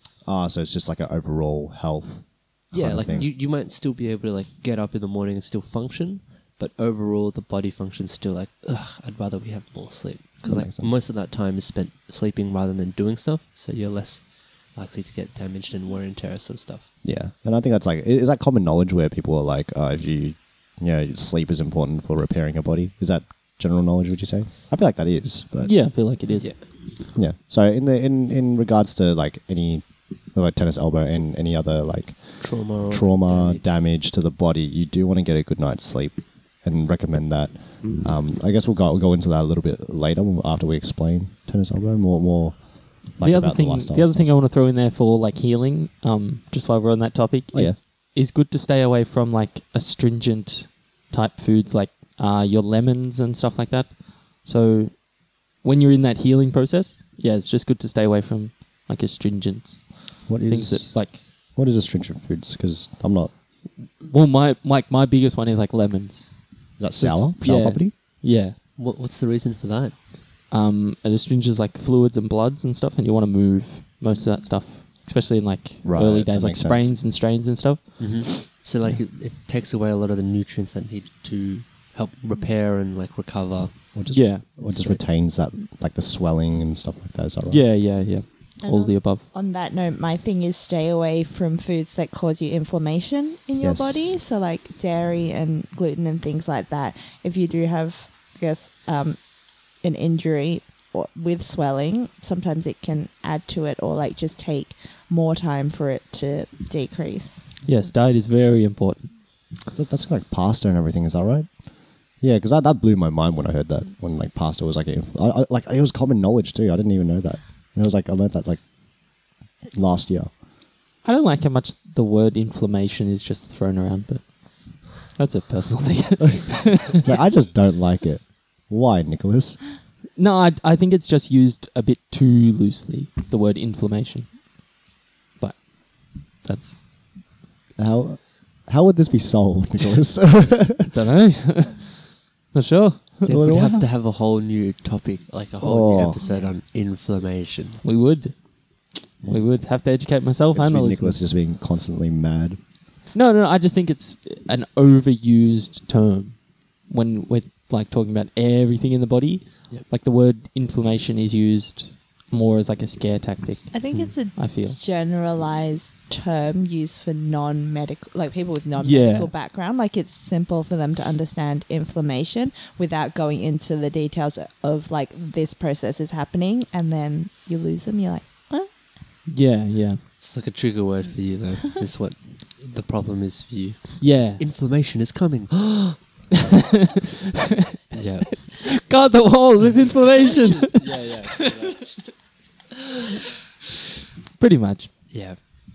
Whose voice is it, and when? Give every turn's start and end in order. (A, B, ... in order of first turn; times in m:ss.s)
0:00.2-0:03.3 A
0:02.7-0:16.9 B
0:10.4-0:10.9 A
0:17.0-0:26.0 A
0:25.6-0:26.5 C
0:26.4-0:26.7 B
0:26.6-0:44.3 A
0:32.4-0:33.6 B
0:43.2-1:01.2 C
0:47.5-0:47.8 A
1:00.3-1:03.3 A
1:04.0-1:08.6 C
1:06.8-1:07.9 A
1:08.8-1:10.0 B
1:10.5-1:19.0 C
1:15.8-1:16.9 A
1:18.0-1:25.0 B
1:23.9-1:27.7 A
1:24.1-1:24.8 C
1:27.5-1:29.2 C
1:28.6-1:47.5 D
1:33.6-1:34.2 A
1:47.6-1:49.1 C
1:49.7-2:00.3 A
2:01.0-2:07.0 C
2:07.0-2:09.7 A
2:10.2-2:14.4 C
2:15.4-2:16.8 C
2:17.8-2:20.9 A
2:20.9-2:23.8 C
2:23.2-2:27.8 B
2:23.2-2:23.8 A
2:25.6-2:26.2 A
2:26.2-2:26.6 D
2:27.8-2:31.2 C
2:30.5-2:32.6 A
2:33.1-2:44.8 C
2:43.7-2:58.8 D
2:48.8-2:49.3 C
2:59.3-3:00.0 C
3:00.2-3:06.5 B
3:04.0-3:04.4 C
3:06.5-3:06.8 C
3:07.9-3:08.6 B
3:08.7-3:11.1 C
3:10.2-3:12.1 B
3:14.4-3:15.1 C
3:15.1-3:15.4 B